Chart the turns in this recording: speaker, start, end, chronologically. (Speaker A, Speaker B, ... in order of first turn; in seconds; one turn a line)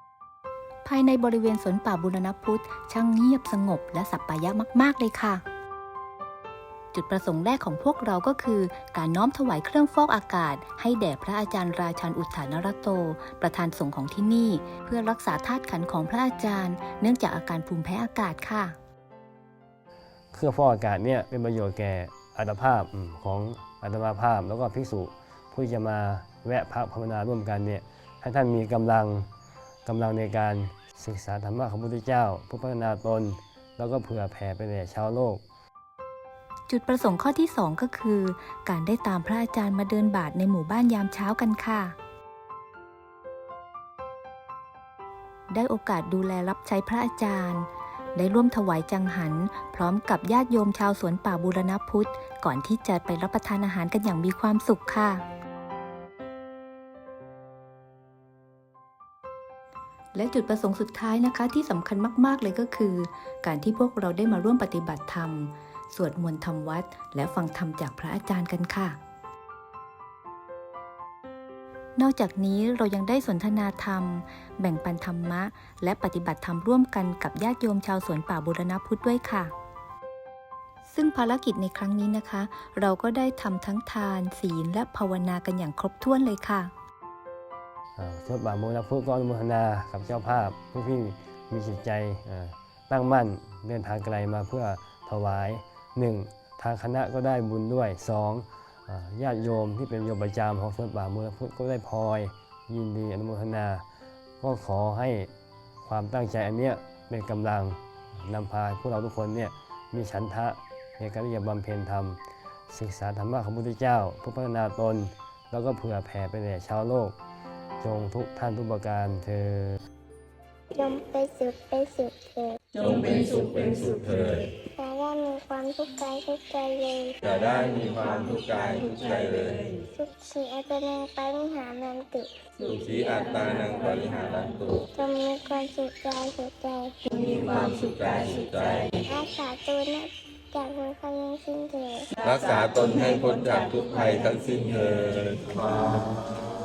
Speaker A: 0.8-5.4
Speaker A: 6.9-18.8
Speaker B: 20.3-29.3
Speaker B: 29.9-35.4
Speaker A: 36.7-41.9
Speaker A: 45.5-55.2
Speaker A: 60.1-69.0
Speaker A: 72.0-79.5
Speaker A: 80.9-86.7
Speaker B: 88.0-103.8
Speaker B: 104.4-105.3
Speaker B: 105.8-112.2
Speaker B: 112.7-117.1
Speaker B: 117.8-119.8
Speaker C: 120.7-122.6
Speaker D: 122.8-124.5
Speaker C: 124.7-127.2
Speaker D: 127.2-129.8
Speaker C: 129.9-132.3
Speaker D: 132.6-134.9
Speaker C: 134.9-137.1
Speaker D: 137.1-139.1
Speaker C: 139.1-142.2
Speaker D: 142.2-146.2